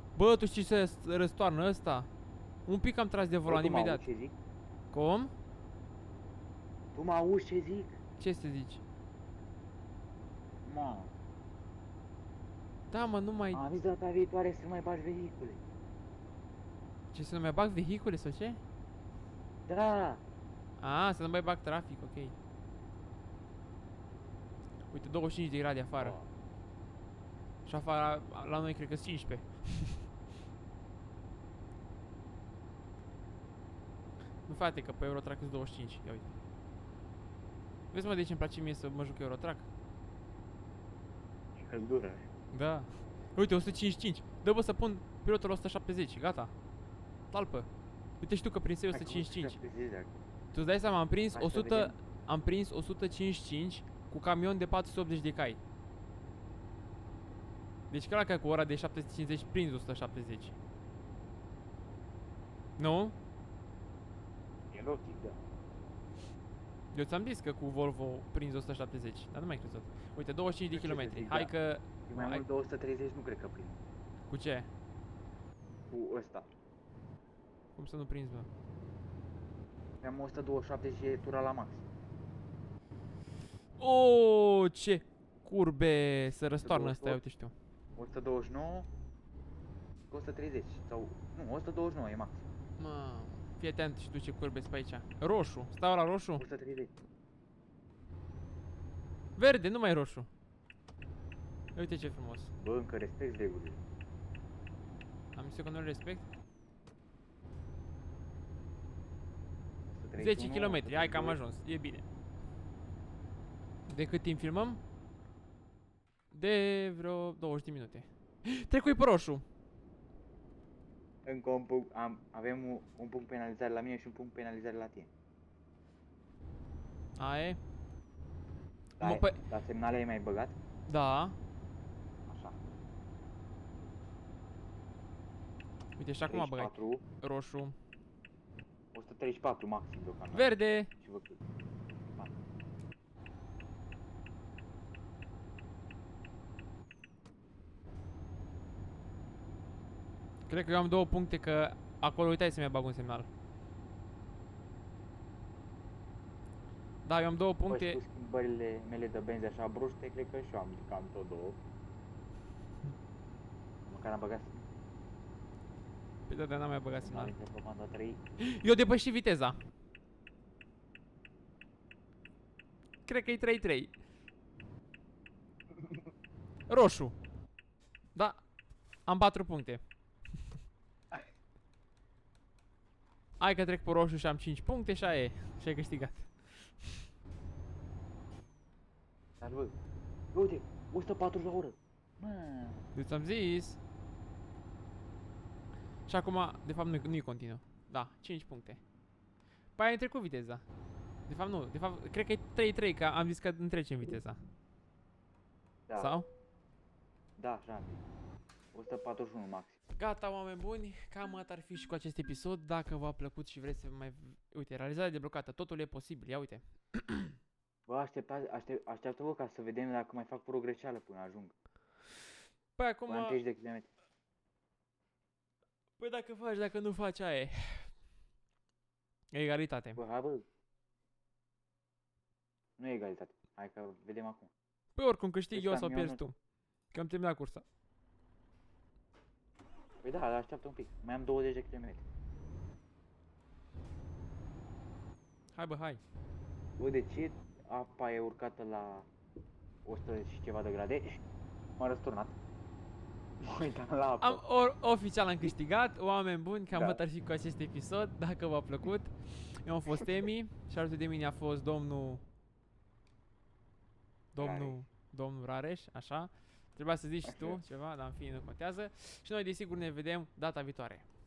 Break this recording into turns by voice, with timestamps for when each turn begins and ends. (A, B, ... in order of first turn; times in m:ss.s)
0:00.2-0:02.1 A
0:02.7-0:04.0 A
0:03.4-0:04.3 B
0:04.9-0:05.3 A
0:06.9-0:08.0 B
0:08.2-0:08.8 A
0:10.6-0:11.1 B
0:12.9-0:13.6 A
0:13.5-0:15.6 B
0:17.1-0:18.6 A
0:19.6-0:20.2 B
0:20.8-0:22.3 A
0:24.9-0:26.2 A
0:26.0-0:26.3 B
0:27.6-0:30.0 A
0:34.5-0:36.3 A
0:37.9-0:39.7 A
0:41.5-0:42.3 B
0:42.5-0:46.5 A
0:47.3-0:47.7 A
0:48.2-0:49.6 A
0:48.9-0:50.2 B
0:50.5-0:55.6 A
0:51.3-0:51.9 B
0:57.9-1:00.6 A
1:02.8-1:03.2 A
1:04.7-1:05.4 B
1:06.9-1:12.4 A
1:10.7-1:11.5 B
1:12.0-1:13.8 B
1:14.3-1:14.7 A
1:15.9-1:16.5 B
1:17.8-1:18.5 A
1:20.0-1:21.8 B
1:23.8-1:27.5 A
1:26.6-1:27.2 B
1:28.0-1:28.9 B
1:30.1-1:32.4 B
1:32.8-1:36.4 A
1:36.4-1:36.9 B
1:39.4-1:40.3 A
1:41.7-1:42.5 A
1:42.6-1:43.8 B
1:45.3-1:46.2 A
1:49.9-1:51.4 B
1:50.2-1:52.0 A
1:53.9-1:54.8 A
1:56.3-1:59.4 A
2:01.2-2:05.1 B
2:07.2-2:07.6 A
2:09.0-2:10.6 B
2:09.0-2:09.4 A
2:10.9-2:11.4 A
2:12.3-2:12.6 B
2:16.0-2:17.7 A
2:16.2-2:17.0 B
2:18.9-2:21.4 B
2:20.3-2:20.9 A
2:22.1-2:22.4 B
2:30.5-2:33.3 A
2:37.0-2:38.0 A
2:37.7-2:41.6 B
2:43.8-2:44.6 B
2:46.3-2:47.3 A
2:47.0-2:48.2 B
2:48.4-2:49.6 A
2:53.1-2:53.9 A
2:56.7-2:57.1 A
2:58.1-2:58.4 A
2:59.0-2:59.8 A
3:03.4-3:07.0 A
3:09.4-3:09.7 B
3:10.3-3:12.9 B
3:12.9-3:13.8 A
3:16.1-3:18.8 A
3:19.8-3:20.6 A
3:21.3-3:24.4 A
3:26.0-3:26.3 A
3:27.4-3:28.0 B
3:28.7-3:29.8 B
3:30.0-3:37.3 A
3:37.9-3:41.5 B
3:42.8-3:43.4 A
3:43.1-3:43.9 B
3:46.0-3:47.9 A
3:49.3-3:50.0 A
3:50.0-3:50.4 B
3:52.8-3:54.5 B
3:55.0-3:56.4 A
3:55.5-3:56.2 B
3:56.9-3:57.6 A
4:00.0-4:02.0 B
4:05.5-4:06.0 A
4:06.8-4:09.1 B
4:09.8-4:11.2 B
4:11.8-4:12.4 B
4:13.4-4:14.4 B
4:14.2-4:22.2 A
4:16.7-4:17.0 B
4:24.3-4:31.0 A
4:24.4-4:24.8 B
4:27.2-4:27.6 B